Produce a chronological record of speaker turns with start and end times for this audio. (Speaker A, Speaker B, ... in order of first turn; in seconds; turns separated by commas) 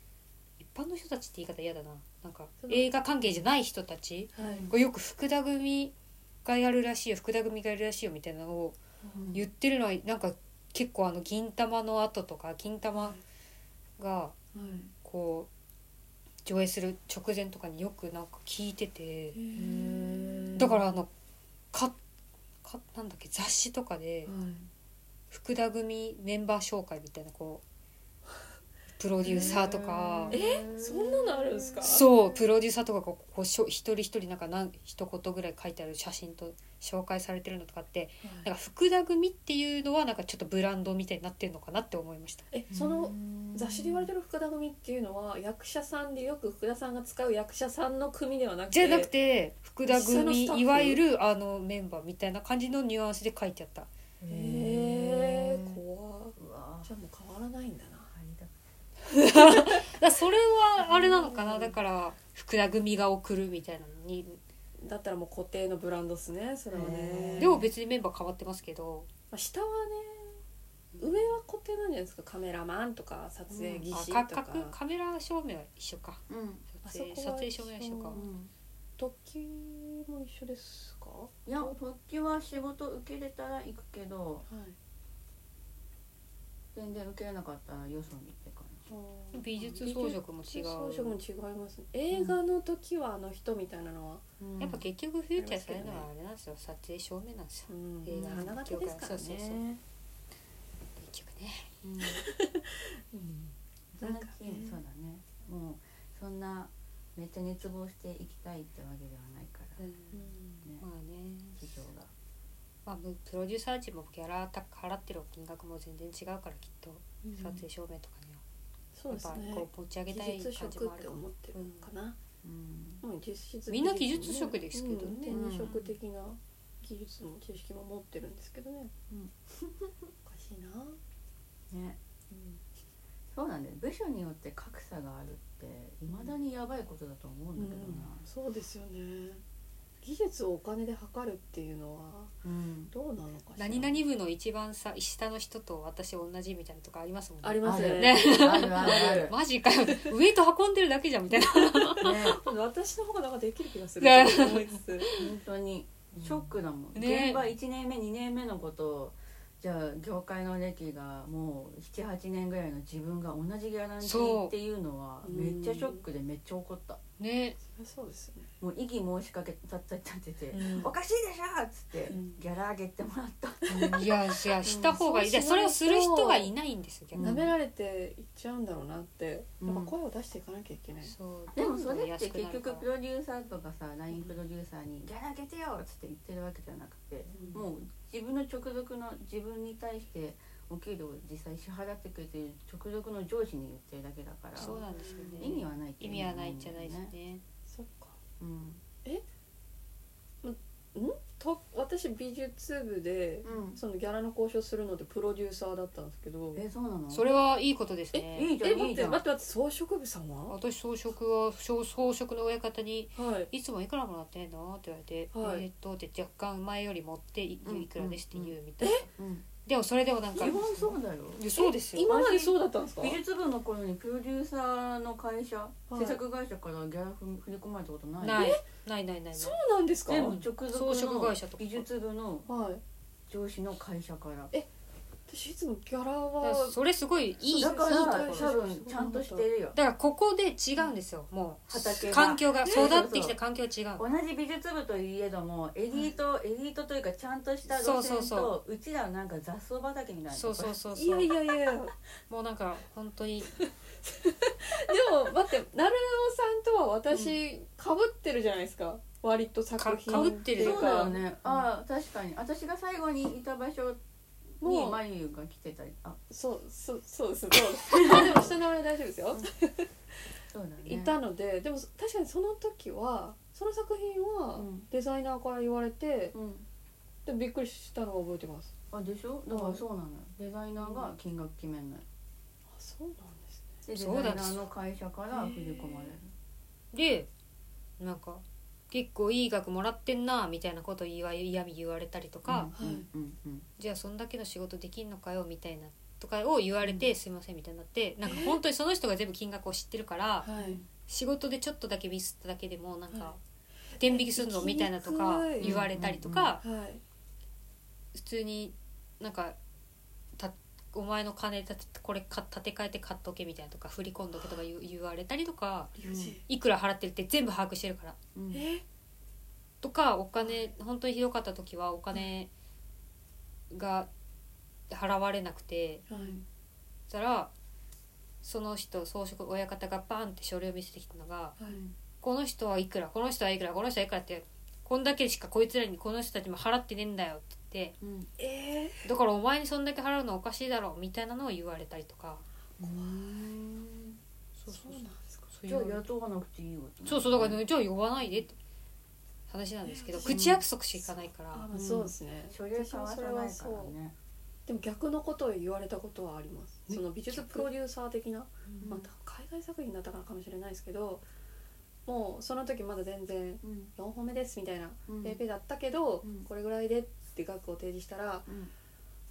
Speaker A: 0.6-5.9, Speaker B: 2.6-2.9, Speaker B: 4.4-4.7, Speaker C: 4.4-4.7, Speaker A: 6.4-8.8, Speaker B: 9.0-9.3, Speaker C: 9.1-9.5, Speaker A: 9.3-13.2, Speaker A: 14.0-15.5, Speaker B: 14.5-14.9, Speaker A: 16.4-19.4, Speaker B: 19.3-20.8, Speaker C: 19.5-20.9, Speaker A: 20.6-21.1, Speaker A: 22.6-24.3, Speaker B: 24.2-24.7, Speaker A: 25.3-27.6, Speaker A: 29.0-30.4, Speaker B: 29.2-29.6, Speaker C: 29.2-32.0, Speaker B: 30.3-32.1, Speaker A: 31.9-42.5, Speaker B: 38.2-38.5, Speaker B: 42.5-49.1, Speaker C: 42.7-44.1, Speaker A: 48.7-53.9, Speaker B: 49.9-51.0, Speaker C: 54.2-55.8, Speaker B: 54.3-58.1, Speaker C: 56.4-56.9, Speaker C: 58.1-58.5, Speaker A: 59.1-64.4, Speaker B: 59.4-59.9, Speaker B: 60.8-61.8, Speaker B: 64.8-67.6, Speaker C: 66.7-67.7, Speaker A: 67.4-69.1, Speaker B: 69.3-70.4, Speaker B: 71.0-74.8, Speaker C: 73.5-73.9, Speaker A: 73.9-78.2, Speaker C: 76.3-76.7, Speaker B: 76.8-78.2, Speaker C: 78.1-78.5, Speaker B: 79.0-81.8, Speaker C: 81.5-84.5, Speaker B: 84.5-84.8, Speaker C: 86.7-88.9, Speaker B: 88.9-94.2, Speaker A: 89.3-91.2, Speaker C: 92.1-92.4, Speaker C: 94.4-94.8, Speaker A: 94.6-99.6, Speaker B: 95.4-96.1, Speaker B: 97.7-99.8, Speaker A: 101.0-101.7, Speaker C: 101.8-102.2, Speaker B: 102.0-104.8, Speaker C: 104.0-109.8, Speaker A: 109.8-110.3, Speaker B: 110.1-110.7, Speaker A: 110.8-111.7, Speaker C: 111.6-112.1, Speaker A: 112.9-118.4, Speaker B: 117.2-117.6, Speaker B: 118.9-122.2, Speaker A: 119.1-121.9, Speaker C: 122.4-123.0, Speaker B: 123.0-128.9, Speaker A: 123.7-125.9, Speaker C: 125.3-125.7, Speaker C: 129.1-130.1, Speaker B: 130.2-131.0, Speaker C: 131.7-132.0, Speaker B: 132.3-132.6, Speaker C: 133.3-138.2, Speaker B: 136.1-136.3, Speaker B: 137.6-139.4, Speaker B: 140.0-142.4, Speaker C: 142.4-142.9, Speaker B: 142.9-144.0, Speaker A: 143.6-152.2, Speaker B: 147.4-149.4, Speaker C: 147.6-149.3, Speaker B: 151.4-155.2, Speaker C: 152.0-152.4, Speaker A: 154.0-154.8, Speaker C: 155.1-167.0, Speaker A: 156.9-157.4, Speaker A: 164.0-164.5, Speaker B: 165.2-166.0, Speaker A: 167.2-167.6, Speaker B: 167.6-168.5, Speaker C: 168.6-174.9, Speaker B: 170.5-170.9, Speaker A: 170.5-170.9, Speaker B: 172.1-172.4, Speaker A: 173.7-177.4, Speaker B: 174.6-176.5, Speaker C: 177.1-177.5, Speaker B: 177.2-181.1, Speaker C: 179.6-179.9, Speaker A: 181.0-182.8, Speaker C: 181.5-194.8, Speaker B: 187.3-187.7, Speaker A: 194.6-197.4, Speaker B: 194.6-195.5, Speaker C: 195.4-197.1, Speaker B: 197.7-198.2, Speaker C: 198.4-198.8, Speaker B: 200.4-206.6, Speaker C: 203.4-203.8, Speaker C: 206.5-207.3, Speaker A: 207.1-208.5, Speaker B: 208.1-210.6, Speaker C: 208.3-209.2, Speaker A: 210.5-219.1, Speaker B: 213.2-213.5, Speaker B: 215.3-215.7, Speaker C: 217.6-218.6, Speaker B: 218.8-219.1, Speaker C: 219.1-219.4, Speaker A: 219.6-222.1, Speaker C: 220.3-221.5, Speaker B: 221.5-223.2, Speaker C: 222.0-228.6, Speaker B: 225.9-226.2, Speaker A: 228.2-229.6, Speaker B: 228.4-228.6, Speaker B: 229.3-230.3, Speaker C: 230.1-232.5, Speaker A: 230.2-231.8, Speaker B: 232.5-232.8, Speaker C: 233.3-234.5, Speaker B: 235.3-236.8, Speaker A: 236.4-238.6, Speaker B: 237.4-239.4, Speaker C: 237.5-239.8, Speaker A: 239.7-244.0, Speaker C: 241.7-243.4, Speaker B: 242.6-243.0, Speaker C: 244.0-250.8, Speaker B: 245.9-246.1, Speaker A: 247.7-248.5, Speaker A: 250.3-251.4, Speaker B: 250.9-251.9, Speaker A: 252.3-253.5, Speaker B: 253.5-261.2, Speaker C: 257.1-257.4, Speaker A: 259.8-261.2, Speaker C: 260.6-264.0, Speaker B: 264.6-265.0, Speaker C: 264.6-266.2, Speaker B: 266.3-269.9, Speaker C: 267.8-268.4, Speaker C: 270.5-271.2, Speaker B: 270.8-276.4, Speaker C: 274.6-274.9, Speaker C: 276.3-276.6, Speaker B: 277.2-278.7, Speaker C: 278.9-282.0, Speaker B: 279.5-279.8, Speaker B: 280.8-281.1, Speaker B: 282.7-283.8, Speaker C: 283.9-286.3, Speaker A: 283.9-284.7, Speaker B: 285.3-286.1, Speaker A: 286.9-287.3, Speaker A: 288.0-292.7, Speaker C: 292.4-293.7, Speaker B: 292.8-293.1, Speaker A: 293.8-303.4, Speaker B: 298.2-298.6, Speaker B: 300.4-300.8, Speaker C: 300.6-300.9, Speaker B: 303.9-305.9, Speaker A: 304.0-306.6, Speaker C: 305.6-306.6, Speaker B: 306.6-307.0, Speaker A: 308.1-309.6, Speaker A: 310.4-318.2, Speaker B: 314.3-314.6, Speaker B: 316.0-316.4, Speaker C: 316.1-316.4, Speaker C: 318.4-318.6, Speaker B: 318.5-318.8, Speaker A: 319.8-322.5, Speaker B: 320.4-320.7, Speaker A: 323.7-324.1, Speaker A: 324.9-326.1, Speaker B: 326.1-326.4, Speaker A: 327.1-327.5, Speaker A: 328.4-331.6, Speaker B: 331.6-331.8, Speaker C: 331.7-331.9, Speaker A: 332.2-337.9, Speaker C: 338.0-338.3, Speaker B: 338.4-339.1, Speaker A: 339.0-342.4, Speaker B: 342.8-343.4, Speaker C: 342.8-344.2, Speaker A: 344.6-346.0, Speaker B: 344.7-345.5, Speaker C: 345.7-347.6, Speaker A: 347.1-348.5, Speaker A: 349.5-351.7, Speaker B: 349.9-353.9, Speaker C: 350.3-350.6, Speaker C: 351.7-354.1, Speaker B: 354.7-361.2, Speaker A: 357.3-357.6, Speaker C: 358.8-359.1, Speaker B: 362.1-368.5, Speaker C: 363.6-363.9, Speaker C: 365.1-365.4, Speaker C: 366.2-366.5, Speaker C: 368.5-368.7